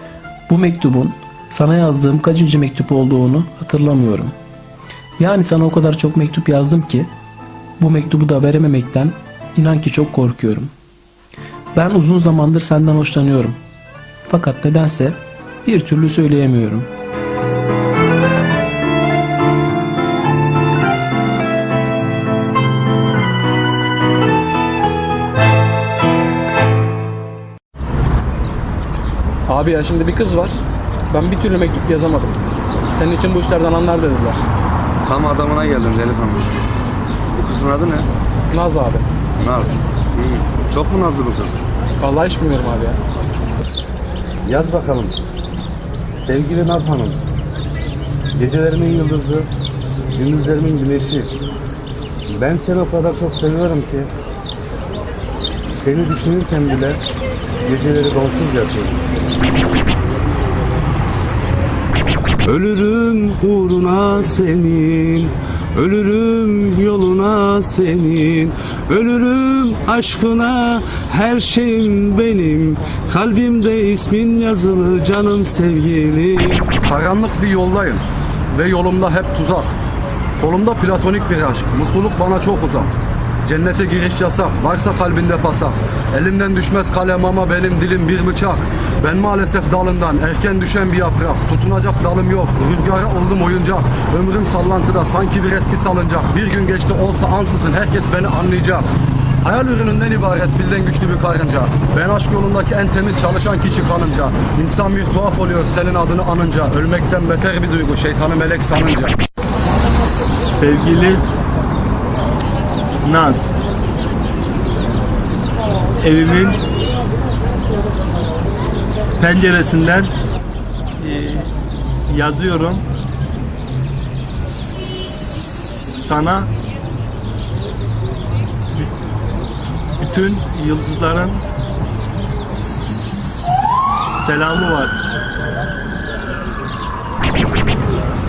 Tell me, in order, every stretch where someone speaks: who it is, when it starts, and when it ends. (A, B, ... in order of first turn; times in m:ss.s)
0:00.5-0:04.4 A
0:05.2-0:07.1 A
0:07.8-0:10.7 A
0:11.7-0:13.6 A
0:14.3-0:16.9 A
0:29.5-0:30.6 B
0:31.1-0:32.4 B
0:32.9-0:34.4 B
0:35.1-0:36.5 C
0:37.3-0:38.1 C
0:38.5-0:39.1 B
0:39.4-0:41.6 C
0:42.0-0:43.0 B
0:44.5-0:45.2 C
0:46.2-0:47.2 C
0:48.4-0:49.5 C
0:50.2-0:51.3 C
0:52.4-0:54.1 C
0:55.8-0:57.0 C
0:57.6-0:59.1 C
1:02.4-1:16.8 C
1:16.8-1:19.8 D
1:20.4-1:38.9 D
1:39.4-1:49.2 D
1:50.4-1:51.2 E
1:53.0-1:53.5 E
1:56.0-1:56.6 E
1:59.2-2:00.1 E
2:01.0-2:01.5 E
2:02.1-2:02.8 E
2:05.8-2:06.5 E
2:10.0-2:11.4 E
2:14.0-2:15.0 E